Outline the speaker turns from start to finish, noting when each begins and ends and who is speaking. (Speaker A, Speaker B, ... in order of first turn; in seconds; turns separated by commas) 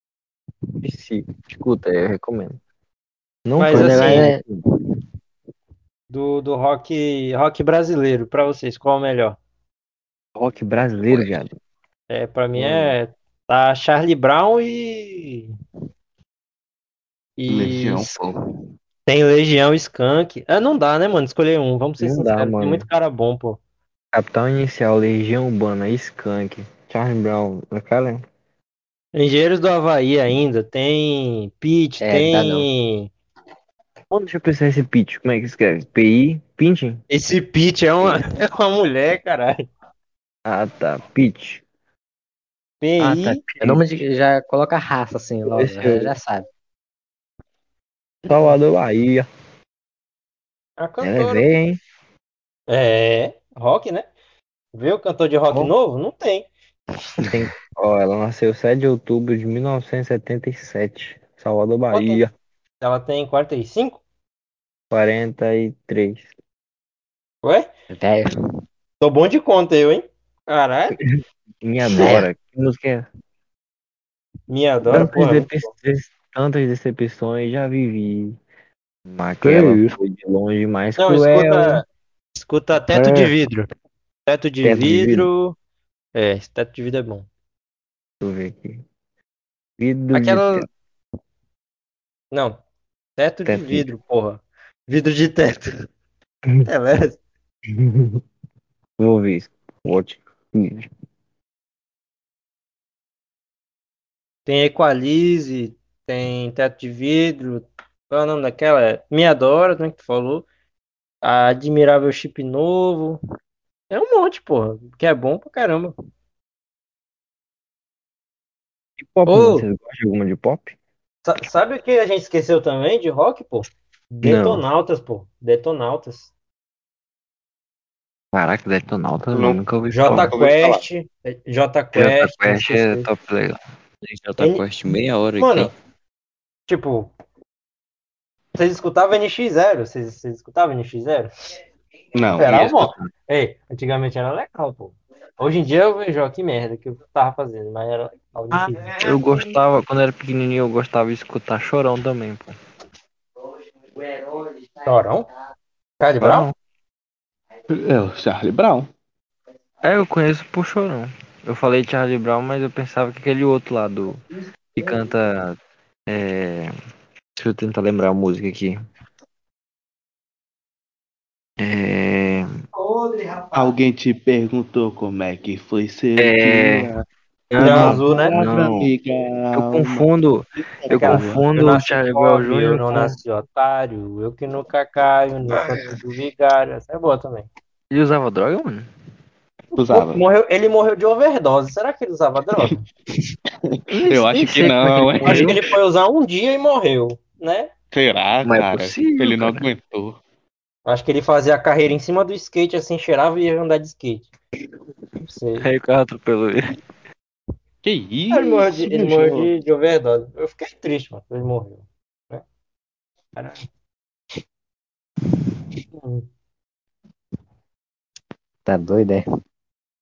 Speaker A: 0.8-2.6, Speaker A: 3.5-4.6, Speaker B: 3.6-4.3, Speaker C: 3.7-4.4, Speaker B: 6.1-9.4, Speaker A: 10.3-11.5, Speaker B: 12.1-15.5, Speaker A: 12.5-12.9, Speaker B: 17.4-18.3, Speaker D: 17.5-18.4, Speaker B: 19.1-23.6, Speaker A: 22.0-22.9, Speaker A: 24.1-28.2, Speaker B: 29.1-33.1, Speaker C: 32.0-32.7, Speaker A: 34.1-37.0, Speaker B: 37.1-39.6, Speaker A: 40.5-41.6, Speaker B: 42.8-43.4, Speaker A: 43.0-43.8, Speaker C: 43.6-46.5, Speaker A: 45.4-46.1, Speaker A: 48.3-49.3, Speaker B: 48.3-48.5, Speaker B: 50.8-51.5, Speaker C: 51.0-51.7, Speaker B: 52.7-54.1, Speaker B: 54.7-56.5, Speaker A: 57.3-62.3, Speaker B: 61.9-62.2, Speaker B: 62.8-64.0, Speaker A: 64.9-66.3, Speaker B: 67.4-67.7, Speaker C: 67.9-68.3, Speaker B: 69.0-71.0, Speaker A: 71.0-73.1, Speaker C: 71.9-72.3, Speaker B: 74.5-75.5, Speaker A: 74.9-78.4, Speaker A: 79.1-81.8, Speaker C: 79.4-79.8, Speaker B: 81.0-83.7, Speaker B: 84.2-85.5, Speaker A: 84.7-85.2, Speaker B: 86.1-87.3, Speaker A: 88.2-88.8, Speaker A: 89.8-90.7, Speaker B: 90.1-90.7, Speaker B: 92.3-92.6, Speaker B: 93.2-95.7, Speaker C: 93.5-93.8, Speaker B: 96.7-97.2, Speaker A: 97.7-98.2, Speaker A: 99.0-100.9, Speaker B: 104.5-110.4, Speaker B: 111.2-113.2, Speaker B: 113.9-115.9, Speaker A: 119.0-120.8, Speaker B: 119.3-119.7, Speaker B: 121.2-126.3, Speaker A: 124.2-124.6, Speaker A: 128.3-130.3, Speaker D: 129.3-130.8, Speaker B: 129.9-133.1, Speaker A: 131.9-133.6, Speaker E: 134.0-135.7, Speaker B: 135.4-135.7, Speaker B: 136.7-137.1, Speaker B: 138.6-141.3, Speaker D: 142.1-142.9, Speaker B: 142.4-149.0, Speaker A: 148.6-152.6, Speaker C: 148.7-149.6, Speaker C: 153.9-155.0, Speaker B: 154.8-155.3, Speaker B: 156.0-156.5, Speaker A: 156.2-156.5, Speaker D: 157.7-158.9, Speaker A: 159.8-164.2, Speaker A: 164.8-165.6, Speaker C: 164.8-165.1, Speaker A: 166.1-166.7, Speaker A: 167.3-168.8, Speaker A: 171.6-172.5, Speaker C: 172.7-173.7, Speaker D: 173.5-177.0, Speaker A: 176.2-176.9, Speaker B: 177.5-178.3, Speaker A: 177.6-178.8, Speaker D: 177.6-180.1, Speaker E: 177.7-178.8, Speaker A: 179.5-183.2, Speaker D: 180.8-181.4, Speaker B: 180.9-187.5, Speaker A: 187.9-188.9, Speaker D: 189.7-190.2, Speaker B: 189.8-192.8, Speaker D: 193.7-195.6, Speaker B: 193.9-197.7, Speaker A: 194.9-195.5, Speaker D: 197.9-200.2, Speaker A: 198.4-199.6, Speaker B: 200.8-204.3, Speaker B: 205.2-205.7, Speaker A: 205.6-206.6, Speaker D: 207.8-209.5, Speaker B: 208.3-212.4, Speaker B: 213.3-213.7, Speaker B: 215.9-216.3, Speaker C: 218.7-219.2